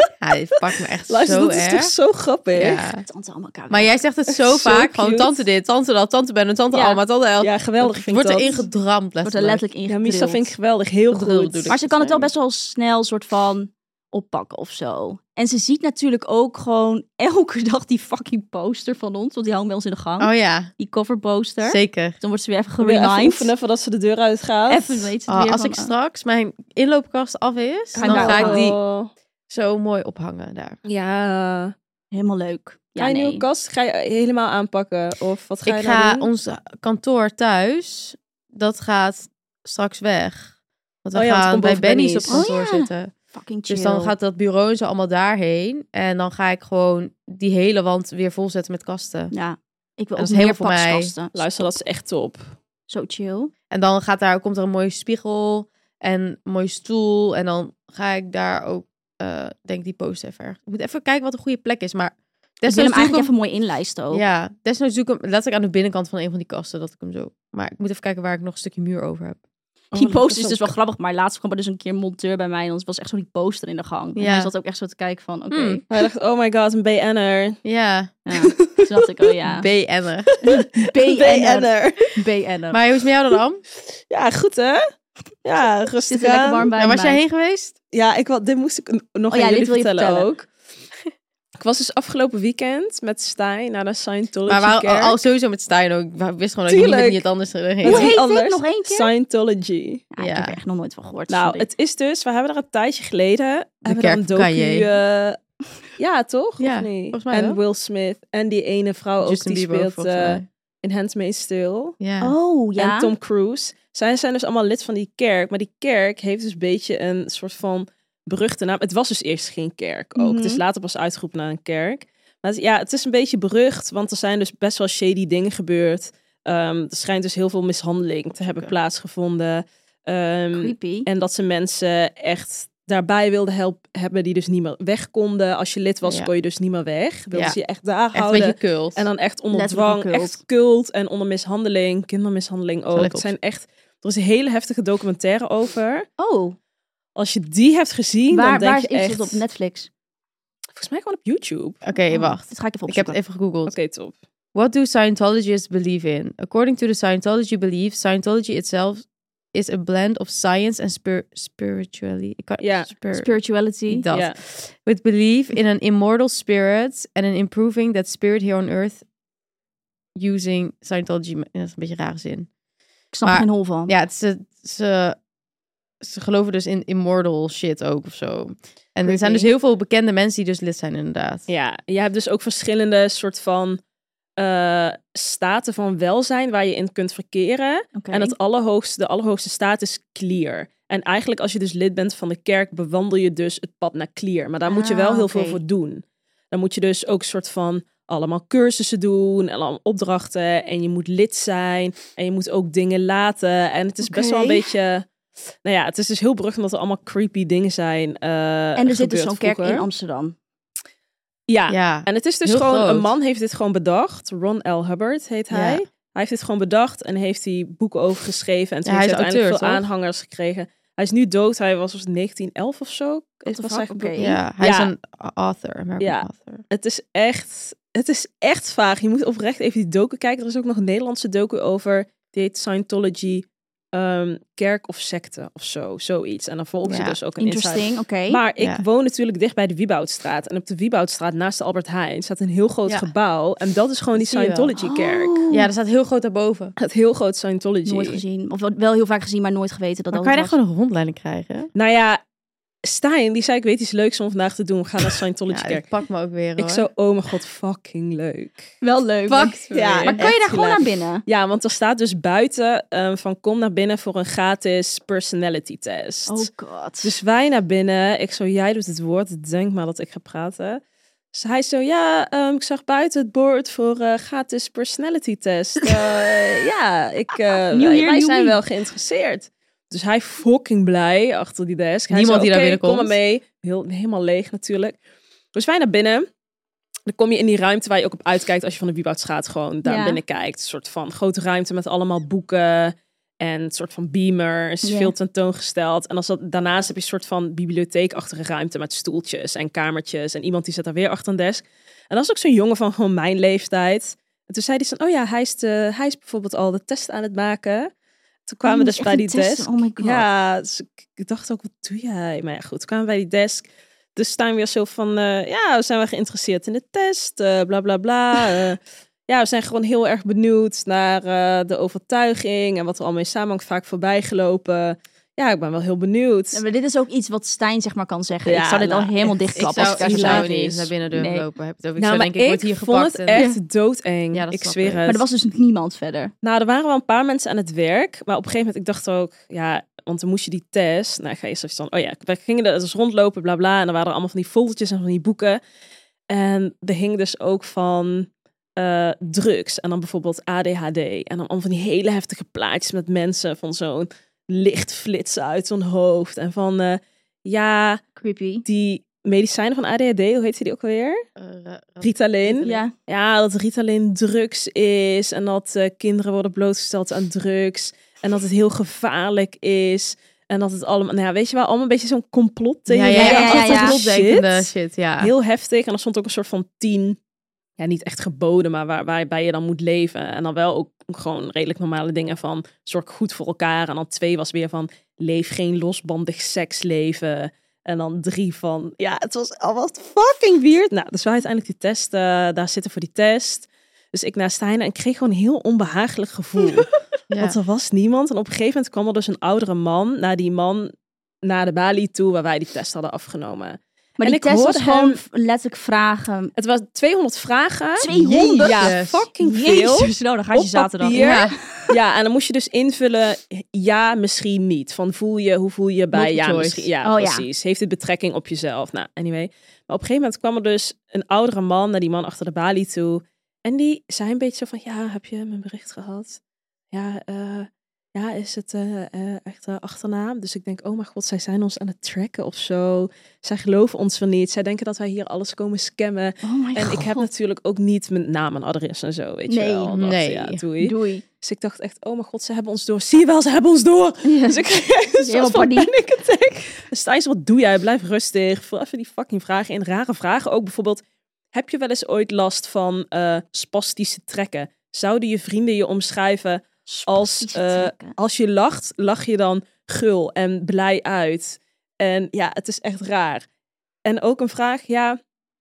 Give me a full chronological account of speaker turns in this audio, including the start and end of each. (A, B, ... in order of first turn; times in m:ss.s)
0:00.2-0:01.9 A
0:01.1-0:02.8 B
0:02.5-0:03.0 A
0:03.0-0:03.9 C
0:03.7-0:09.6 A
0:04.3-0:05.4 B
0:06.7-0:07.0 C
0:07.4-0:08.6 B
0:09.2-0:10.5 C
0:09.9-0:11.8 B
0:11.1-0:12.3 A
0:11.7-0:23.5 C
0:20.2-0:20.7 A
0:21.6-0:22.2 A
0:22.8-0:25.1 B
0:24.7-0:25.9 C
0:25.3-0:28.8 A
0:27.9-0:29.1 B
0:28.0-0:28.7 C
0:29.5-0:30.8 A
0:30.8-0:31.7 B
0:32.1-0:33.4 C
0:33.0-0:36.3 B
0:35.6-0:43.1 A
0:41.1-0:42.4 B
0:42.3-0:44.1 C
0:43.7-0:49.3 A
0:49.3-0:51.7 C
0:50.2-0:51.1 A
0:51.3-0:52.5 B
0:52.9-0:53.5 C
0:53.7-1:03.3 A
1:02.6-1:04.2 C
1:04.1-1:09.4 A
1:09.9-1:10.7 B
1:09.9-1:15.9 C
1:14.2-1:14.5 A
1:15.5-1:15.8 A
1:15.9-1:17.6 B
1:17.6-1:18.1 A
1:18.2-1:19.7 C
1:18.3-1:19.1 B
1:19.4-1:20.3 A
1:20.4-1:22.1 B
1:20.4-1:22.8 C
1:22.7-1:23.6 A
1:24.0-1:24.8 B
1:25.4-1:26.7 B
1:26.1-1:27.2 C
1:26.8-1:27.7 A
1:27.9-1:30.5 B
1:29.3-1:30.3 C
1:31.6-1:35.2 B
1:34.5-1:38.1 A
1:36.7-1:37.2 B
1:37.8-1:40.0 B
1:37.8-1:39.1 C
1:40.1-1:41.6 C
1:40.2-1:40.6 A
1:41.3-1:45.4 B
1:43.8-1:44.9 A
1:46.0-1:52.0 B
1:46.6-1:47.6 A
1:49.2-1:50.4 A
1:52.0-1:52.3 A
1:52.2-1:53.1 C
1:52.8-2:26.0 B
2:00.2-2:00.6 C
2:08.4-2:08.7 A
2:10.5-2:11.1 C
2:16.0-2:16.3 A
2:18.1-2:19.0 A
2:19.5-2:20.4 C
2:22.9-2:23.3 A
2:26.2-2:26.6 C
2:27.2-2:29.4 B
2:28.3-2:29.9 C
2:30.7-2:31.8 B
2:31.8-2:33.7 A
2:32.1-2:33.2 C
2:33.6-2:34.1 B
2:34.5-2:43.3 A
2:42.6-2:42.9 B
2:43.1-2:44.0 C
2:43.9-2:49.0 A
2:44.1-2:44.4 B
2:50.2-2:52.5 A
2:53.1-2:53.9 C
2:53.2-2:55.2 A
2:56.0-3:01.4 A
2:59.0-2:59.5 C
3:01.5-3:03.8 B
3:04.4-3:25.0 B
3:07.9-3:08.4 C
3:14.6-3:15.6 C
3:24.0-3:24.7 C
3:25.6-3:29.8 B
3:28.8-3:30.4 C
3:31.5-3:44.9 B
3:31.7-3:33.1 A
3:35.5-3:35.8 A
3:38.8-3:39.8 A
3:43.4-3:44.4 C
3:44.2-3:46.6 A
3:46.0-4:05.4 B
3:56.8-3:57.2 A
3:57.4-3:58.4 C
3:58.6-3:58.8 A
4:04.1-4:04.7 A
4:04.8-4:05.7 C
4:05.5-4:06.7 A
4:06.8-4:08.2 B
4:07.8-4:10.6 C
4:10.1-4:11.7 A
4:11.7-4:12.2 B
4:12.8-4:15.8 B
4:15.5-4:16.8 A
4:16.6-4:18.7 B
4:18.8-4:21.2 C
4:19.3-4:20.3 A
4:19.7-4:26.5 B
4:26.3-4:27.1 C
4:27.0-4:30.8 B
4:31.3-4:45.0 B
4:37.7-4:38.6 C
4:42.1-4:43.2 A
4:45.5-4:46.2 B
4:47.1-5:07.9 B
4:49.8-4:50.2 C
4:54.8-4:55.1 C
5:08.5-5:13.6 B
5:08.6-5:10.2 C
5:14.2-5:26.6 B
5:26.5-5:31.4 C
5:28.4-5:30.9 B
5:29.6-5:33.4 A
5:32.0-5:35.2 B
5:33.3-5:33.6 C
5:34.3-5:35.0 A
5:35.0-5:36.3 C
5:36.4-5:45.6 B
5:46.3-5:58.0 B
5:58.2-5:58.6 C
5:58.6-6:01.2 B
6:01.4-6:02.8 A
6:02.0-6:17.2 B
6:02.6-6:02.9 C
6:12.9-6:15.3 A
6:13.1-6:14.0 C
6:17.8-6:36.9 B
6:37.3-6:37.6 A
6:37.4-6:40.9 B
6:41.4-6:45.2 B
6:44.2-6:46.5 C
6:46.6-7:06.4 B
6:48.0-6:51.9 C
6:48.1-6:49.2 A
6:51.1-6:51.6 A
6:56.1-6:56.9 A
6:57.0-6:57.4 C
7:06.9-7:31.0 B
7:16.4-7:17.2 C
7:19.5-7:20.0 C
7:19.9-7:20.6 A
7:20.8-7:21.2 C
7:24.2-7:24.6 C
7:25.2-7:25.9 C
7:31.5-7:43.4 B
7:36.9-7:38.1 C
7:44.0-7:45.2 B